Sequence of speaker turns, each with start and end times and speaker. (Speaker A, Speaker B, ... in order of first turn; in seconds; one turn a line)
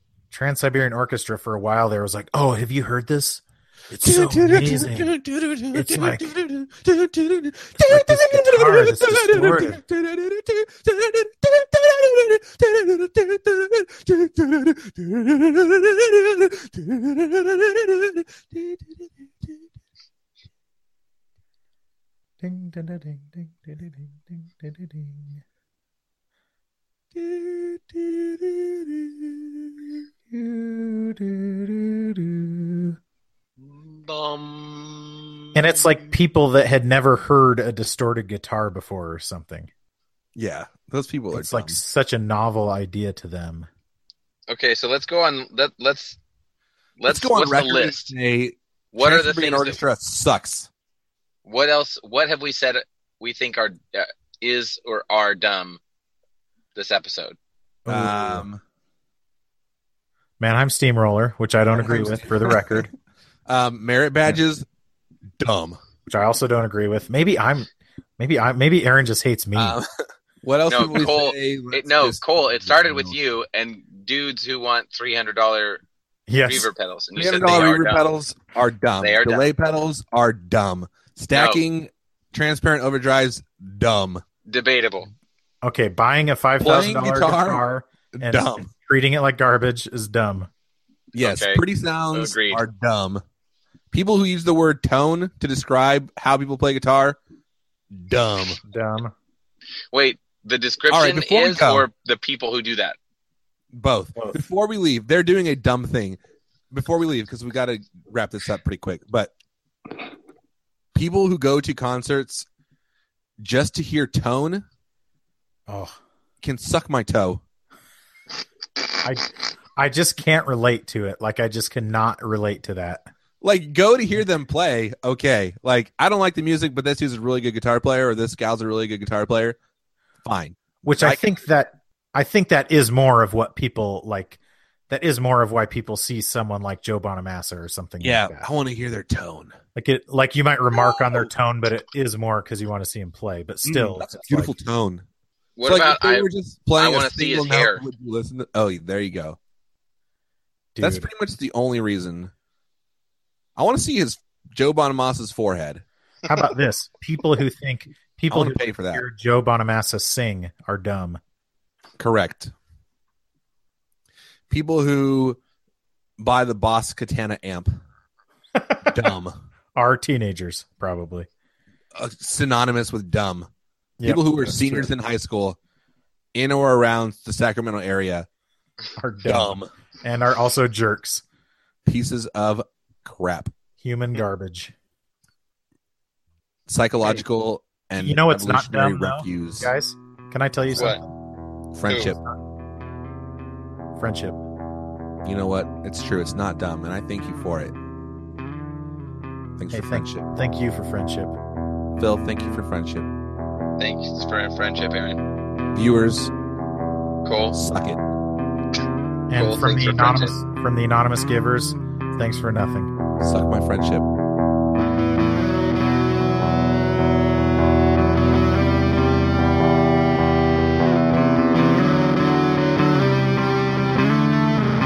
Speaker A: 0.3-5.1
Speaker B: 4.0-18.8
Speaker A: 5.7-6.3
Speaker A: 7.8-9.8
Speaker A: 22.4-25.4
Speaker A: 27.7-28.0
Speaker A: 30.3-33.0
Speaker C: 33.6-35.8
Speaker A: 35.5-39.7
Speaker B: 40.4-41.8
Speaker A: 41.3-43.7
Speaker C: 44.5-46.2
Speaker C: 47.0-48.1
Speaker B: 47.1-50.7
Speaker C: 48.9-49.8
Speaker C: 51.5-55.8
Speaker C: 56.8-57.4
Speaker A: 57.9-58.5
Speaker B: 57.9-58.6
Speaker A: 60.4-62.9
Speaker B: 61.7-62.9
Speaker B: 63.5-64.7
Speaker B: 65.4-65.8
Speaker A: 66.1-69.8
Speaker B: 69.5-73.2
Speaker C: 70.7-75.8
Speaker A: 76.3-76.7
Speaker C: 76.5-78.0
Speaker B: 77.2-84.2
Speaker C: 79.0-79.5
Speaker C: 81.3-81.6
Speaker C: 84.5-85.1
Speaker A: 85.6-90.5
Speaker B: 86.6-88.7
Speaker B: 91.1-93.2
Speaker C: 91.2-91.6
Speaker C: 92.1-92.6
Speaker B: 93.9-97.2
Speaker B: 97.9-98.6
Speaker A: 98.6-99.1
Speaker C: 99.9-103.0
Speaker B: 100.9-101.9
Speaker B: 103.7-106.2
Speaker B: 106.7-109.3
Speaker B: 111.0-112.5
Speaker B: 113.4-114.7
Speaker A: 115.7-116.0
Speaker B: 116.4-117.4
Speaker A: 119.0-123.1
Speaker B: 123.4-129.6
Speaker B: 130.2-131.4
Speaker A: 130.8-134.4
Speaker A: 134.9-138.5
Speaker B: 138.0-139.6
Speaker A: 139.8-144.5
Speaker B: 143.7-145.1
Speaker C: 145.6-147.8
Speaker B: 145.7-149.4
Speaker A: 150.8-151.1
Speaker B: 150.8-152.3
Speaker B: 153.6-155.8
Speaker A: 156.3-161.2
Speaker B: 158.3-159.0
Speaker B: 162.0-162.5
Speaker B: 164.5-165.4
Speaker B: 166.2-167.8
Speaker A: 168.6-169.1
Speaker B: 168.9-169.4
Speaker A: 169.8-171.3
Speaker B: 171.9-173.5
Speaker A: 174.0-174.9
Speaker B: 174.0-175.6
Speaker B: 176.3-178.3
Speaker A: 179.0-181.2
Speaker B: 179.2-179.7
Speaker B: 181.9-183.5
Speaker A: 183.8-184.7
Speaker B: 186.7-189.7
Speaker A: 188.0-191.1
Speaker C: 190.7-191.0
Speaker B: 191.7-192.2
Speaker C: 191.9-192.1
Speaker A: 194.0-194.4
Speaker B: 195.2-197.7
Speaker B: 199.6-200.3
Speaker A: 199.7-201.3
Speaker B: 202.0-203.1
Speaker C: 203.8-205.2
Speaker B: 205.7-206.3
Speaker C: 207.2-207.6
Speaker B: 207.5-208.0
Speaker A: 209.3-212.9
Speaker C: 209.3-210.3
Speaker B: 213.2-214.1